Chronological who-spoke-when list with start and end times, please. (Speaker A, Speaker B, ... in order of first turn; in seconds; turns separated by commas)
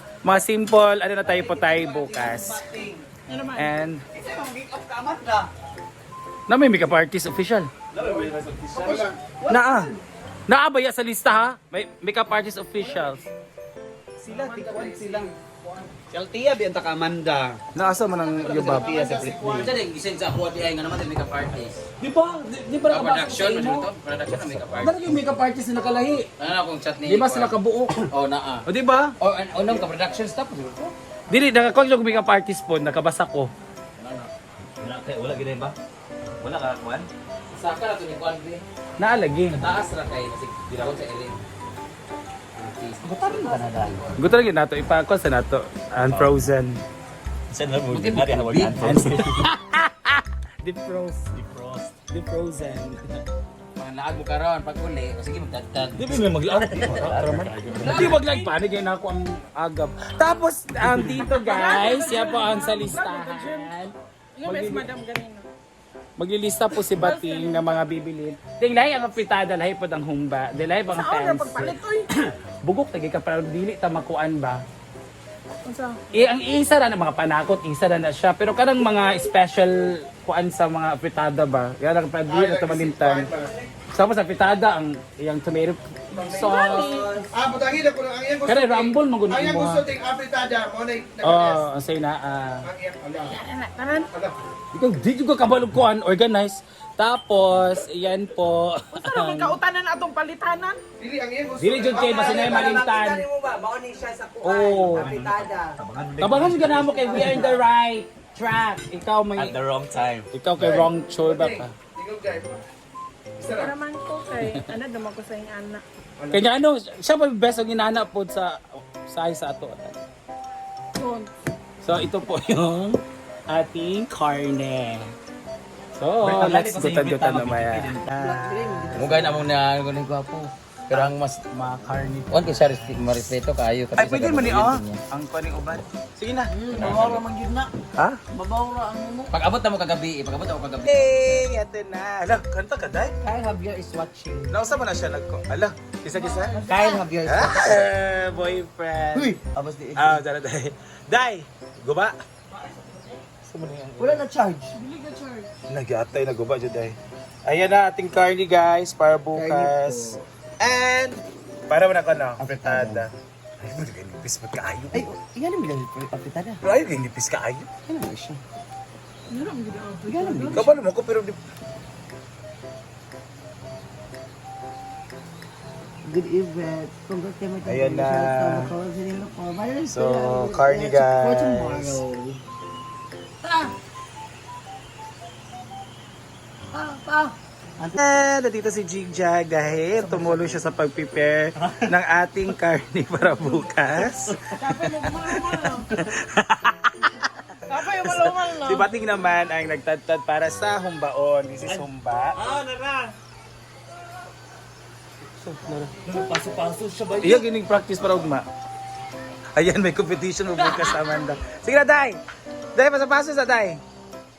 Speaker A: 0.2-2.7, Speaker B: 1.4-3.0, Speaker C: 3.3-3.7, Speaker A: 3.5-4.0, Speaker B: 4.1-5.5, Speaker A: 6.5-7.7, Speaker D: 7.9-9.1, Speaker E: 8.8-9.2, Speaker A: 9.5-9.9, Speaker A: 10.5-13.2, Speaker B: 14.2-15.3, Speaker E: 14.3-15.2, Speaker C: 14.6-15.2, Speaker B: 16.1-17.6, Speaker A: 17.8-19.1, Speaker E: 18.4-19.8, Speaker B: 18.4-19.7, Speaker F: 19.5-21.8, Speaker A: 22.0-26.3, Speaker F: 22.9-25.1, Speaker F: 26.4-27.6, Speaker A: 27.1-28.1, Speaker F: 28.1-28.6, Speaker A: 28.7-29.1, Speaker F: 29.2-30.9, Speaker A: 31.3-33.5, Speaker F: 34.0-34.3, Speaker D: 34.8-35.8, Speaker D: 36.4-37.1, Speaker F: 37.5-38.6, Speaker A: 39.0-39.6, Speaker F: 39.5-41.4, Speaker F: 42.6-44.1, Speaker D: 43.2-43.9, Speaker B: 43.3-43.8, Speaker A: 44.2-46.8, Speaker D: 46.1-46.4, Speaker D: 47.5-49.4, Speaker F: 47.9-49.3, Speaker A: 48.8-51.4, Speaker D: 51.4-51.9, Speaker A: 52.0-53.0, Speaker F: 53.8-58.1, Speaker A: 56.0-64.9, Speaker D: 56.7-58.2, Speaker D: 60.8-61.2, Speaker C: 61.3-63.9, Speaker C: 64.4-65.5, Speaker A: 66.2-74.6, Speaker C: 66.9-67.9, Speaker C: 70.9-72.1, Speaker C: 75.7-76.3, Speaker A: 76.1-83.3, Speaker E: 82.3-83.5, Speaker A: 83.9-87.1, Speaker B: 86.2-87.2, Speaker C: 86.2-87.2, Speaker E: 87.3-91.6, Speaker A: 88.5-89.9, Speaker A: 91.2-92.7, Speaker E: 92.7-93.4, Speaker C: 93.2-94.1, Speaker E: 94.1-94.4, Speaker A: 94.7-99.6, Speaker C: 98.9-100.8, Speaker E: 101.0-102.8, Speaker A: 101.6-103.3, Speaker B: 101.9-105.8, Speaker A: 104.4-105.2, Speaker D: 104.9-107.4, Speaker A: 106.2-109.6, Speaker B: 106.6-107.6, Speaker D: 109.4-110.3, Speaker A: 110.3-111.7, Speaker E: 110.6-112.6, Speaker E: 113.4-113.7, Speaker C: 113.6-115.8, Speaker A: 116.3-120.0, Speaker C: 121.0-121.3, Speaker A: 121.8-125.1, Speaker A: 126.0-129.3, Speaker D: 126.2-128.1, Speaker B: 128.1-129.5, Speaker F: 128.9-131.4, Speaker A: 130.9-133.2, Speaker F: 132.3-135.0, Speaker A: 134.0-137.2, Speaker B: 136.5-137.7, Speaker B: 138.3-139.3, Speaker F: 139.3-141.1, Speaker A: 140.8-143.2, Speaker B: 143.2-144.6, Speaker A: 144.5-146.7, Speaker C: 146.2-147.0, Speaker B: 146.6-147.8, Speaker A: 147.2-149.4, Speaker B: 149.1-150.2, Speaker A: 149.9-152.2, Speaker A: 153.4-154.3, Speaker B: 154.0-155.5, Speaker A: 155.7-165.1, Speaker B: 159.3-160.2, Speaker B: 162.4-163.1, Speaker B: 164.9-166.6, Speaker A: 166.6-167.7, Speaker B: 167.9-168.4, Speaker C: 169.3-170.7, Speaker B: 170.1-170.8, Speaker A: 170.5-171.4, Speaker B: 176.0-182.4, Speaker A: 177.6-178.8, Speaker A: 179.9-182.0, Speaker B: 183.4-183.7, Speaker B: 186.7-188.0, Speaker A: 187.9-202.4, Speaker B: 190.0-190.5, Speaker C: 194.6-195.9, Speaker C: 197.7-198.9, Speaker D: 202.4-203.1, Speaker B: 205.5-206.1, Speaker D: 206.0-207.4, Speaker A: 207.2-208.5, Speaker A: 209.6-212.2, Speaker A: 212.8-213.8